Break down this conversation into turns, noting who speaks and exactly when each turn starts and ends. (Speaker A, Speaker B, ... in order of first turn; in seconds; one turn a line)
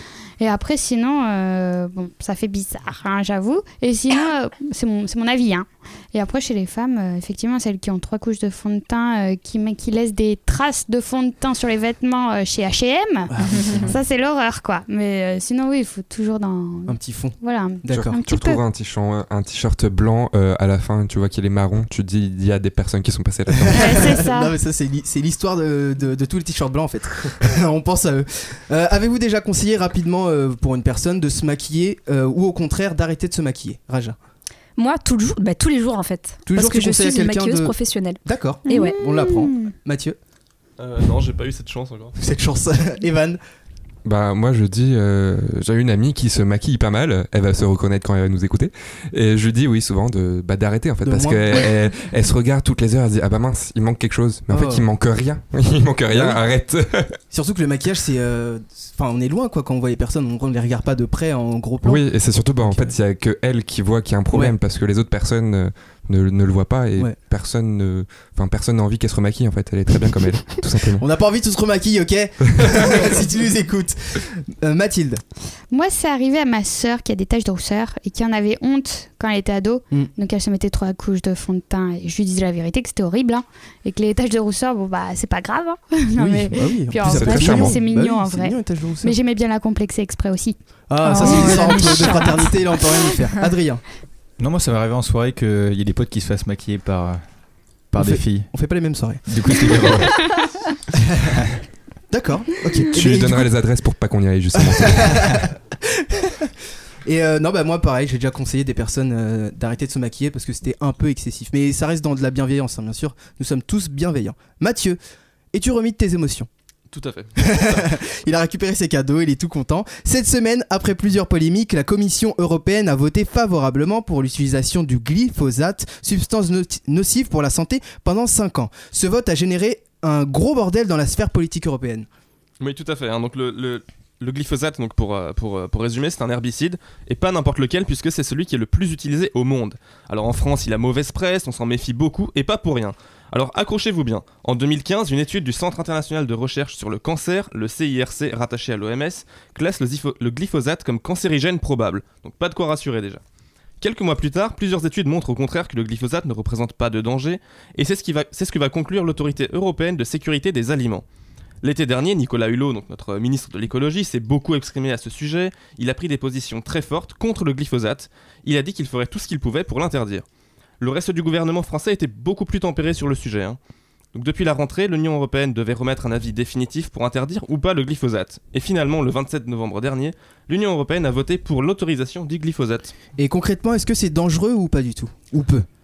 Speaker A: 0.4-18.6
Speaker B: 13.3-13.9
Speaker B: 16.9-18.2
Speaker C: 17.9-23.9
Speaker B: 23.6-34.2
Speaker A: 23.7-24.5
Speaker D: 34.8-39.0
Speaker B: 36.5-40.2
Speaker A: 38.7-39.7
Speaker E: 40.8-42.1
Speaker B: 42.2-43.4
Speaker C: 44.0-57.1
Speaker B: 51.0-51.7
Speaker B: 54.5-54.9
Speaker B: 56.1-56.4
Speaker B: 57.3-62.9
Speaker C: 61.8-71.0
Speaker B: 71.0-75.2
Speaker C: 72.5-73.1
Speaker A: 75.7-92.5
Speaker B: 86.2-89.1
Speaker C: 87.0-87.8
Speaker B: 90.9-93.8
Speaker D: 91.0-92.6
Speaker F: 94.4-97.4
Speaker F: 97.9-98.7
Speaker B: 97.9-100.0
Speaker F: 99.2-100.4
Speaker B: 102.1-103.5
Speaker C: 102.9-105.2
Speaker B: 104.6-106.5
Speaker B: 107.0-115.0
Speaker B: 115.5-116.5
Speaker E: 116.9-117.9
Speaker B: 117.4-132.1
Speaker E: 132.6-153.2
Speaker E: 153.8-161.0
Speaker E: 161.6-170.2
Speaker E: 170.8-173.6
Speaker E: 174.1-182.9
Speaker B: 183.2-185.7